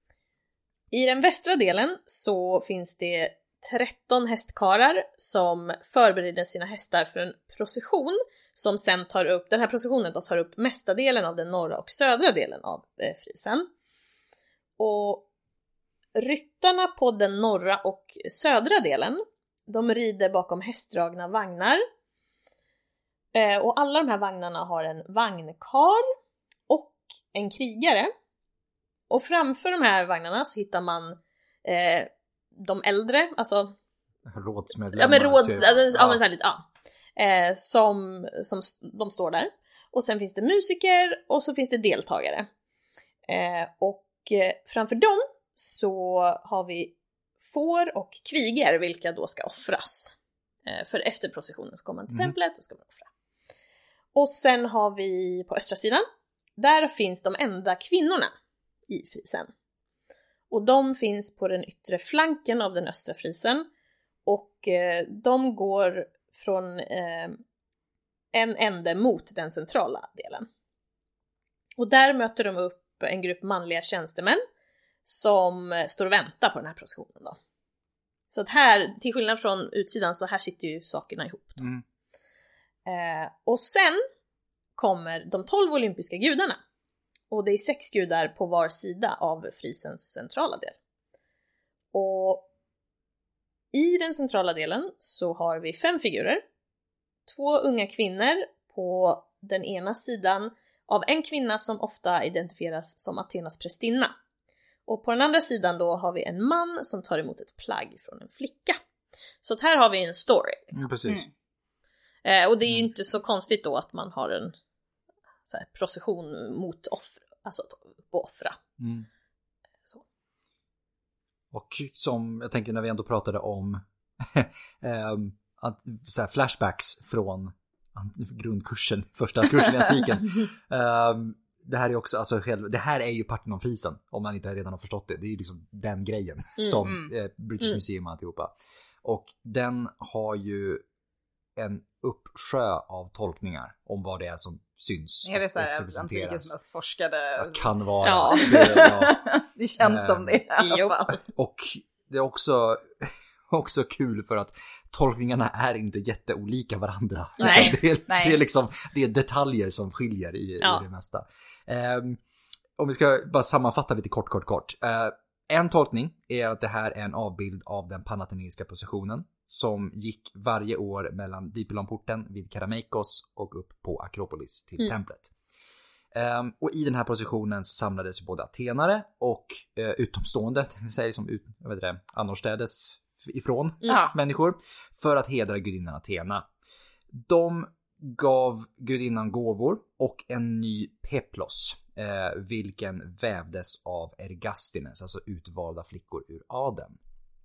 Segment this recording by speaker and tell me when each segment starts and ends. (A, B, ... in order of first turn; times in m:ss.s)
0:00.9-0:13.7 A
0:14.8-0:15.2 A
0:16.1-0:21.8 A
0:23.3-0:26.0 A
0:26.7-0:28.1 A
0:29.1-0:33.7 A
0:34.2-0:36.2 B
0:35.0-0:36.6 A
0:37.2-0:42.5 A
0:43.3-0:53.1 A
0:52.1-0:52.3 B
0:54.1-0:56.0 A
0:56.6-0:58.3 A
0:58.9-0:59.5 A
1:00.5-1:03.6 A
1:04.2-1:07.4 A
1:08.3-1:10.5 A
1:11.8-1:14.4 A
1:15.0-1:17.4 A
1:18.3-1:21.6 A
1:22.8-1:24.0 A
1:24.8-1:26.6 A
1:27.3-1:30.7 A
1:31.9-1:32.4 A
1:33.7-1:36.4 A
1:37.3-1:44.1 A
1:44.9-1:48.8 A
1:49.4-1:50.9 A
1:50.8-1:51.2 B
1:52.2-1:54.5 A
1:55.5-1:58.6 A
1:58.8-1:59.1 B
2:01.5-2:20.8 B
2:16.6-2:16.9 A
2:21.6-2:26.5 B
2:25.2-2:27.7 C
2:27.4-2:29.2 B
2:28.0-2:28.5 A
2:28.3-2:31.2 C
2:29.8-2:30.4 B
2:30.6-2:31.0 A
2:31.2-2:42.2 B
2:37.4-2:37.8 A
2:37.4-2:38.4 C
2:42.8-2:55.3 B
2:56.1-3:06.5 B
3:03.9-3:04.1 C
3:07.1-3:17.0 B